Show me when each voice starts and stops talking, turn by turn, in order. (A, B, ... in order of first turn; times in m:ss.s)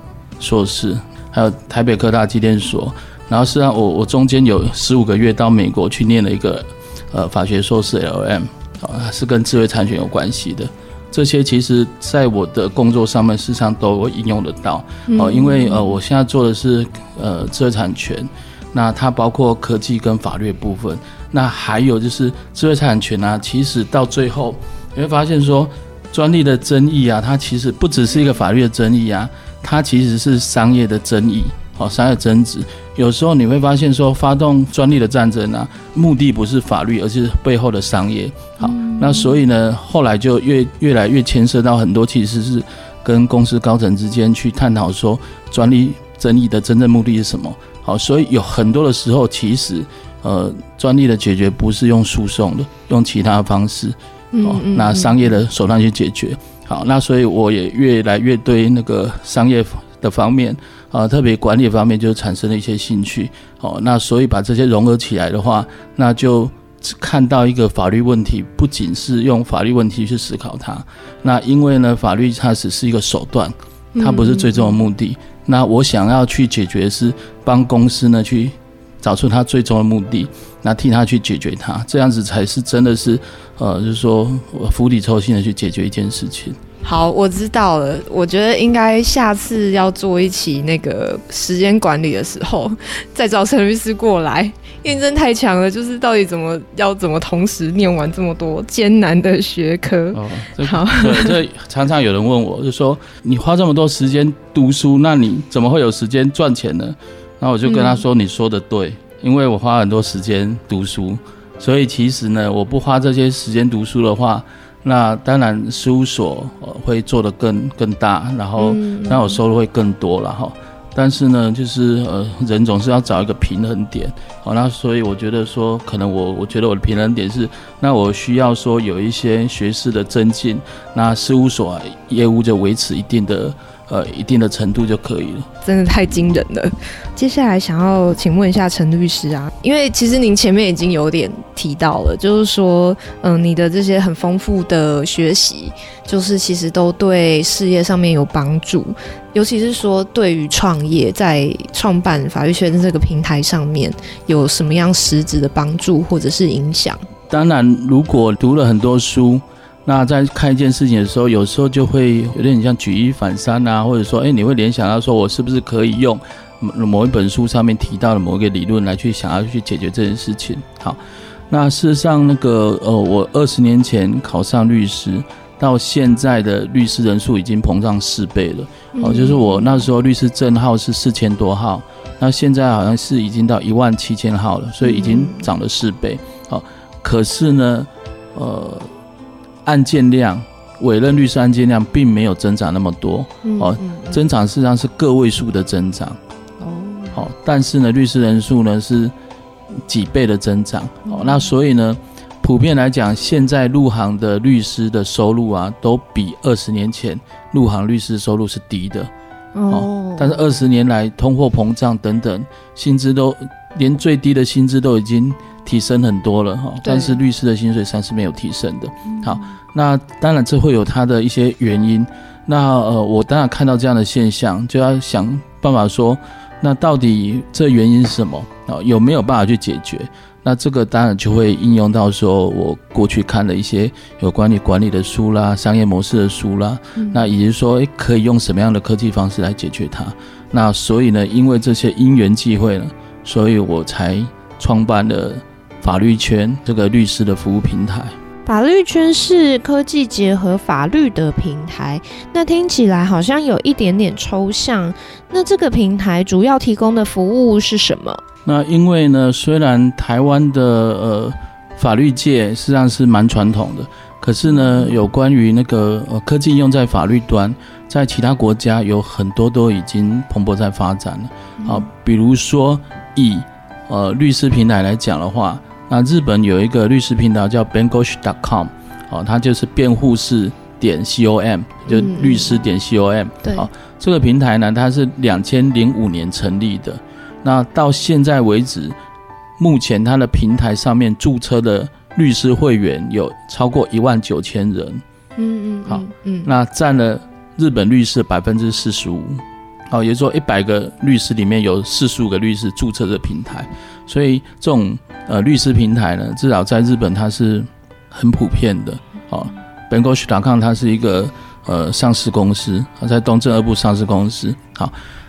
0:00.4-1:26.6 A
0:15.1-0:15.5 B
0:38.7-0:39.2 B
0:54.3-0:55.1 B
1:14.0-1:14.4 B
1:26.8-1:32.6 B
1:33.2-1:40.2 B
1:40.1-2:15.5 A
1:40.7-1:41.3 B
1:47.7-1:48.0 B
1:58.6-1:59.3 B
2:15.6-2:37.0 B
2:37.3-2:51.0 A
2:51.5-3:08.9 A
2:59.0-2:59.8 B
3:04.8-3:05.4 B
3:09.6-3:16.2 A
3:13.4-3:14.2 B
3:16.6-3:17.2 B
3:17.1-3:19.1 A
3:19.7-3:29.1 A
3:21.1-3:21.4 B
3:29.6-3:30.4 B
3:29.7-4:08.1 A
3:36.8-3:37.2 B
4:08.5-4:18.2 B
4:18.4-4:49.0 A
4:31.6-4:31.8 B
4:41.9-4:42.6 B
4:49.6-4:55.0 A
4:55.4-4:56.4 B
4:55.9-5:14.9 A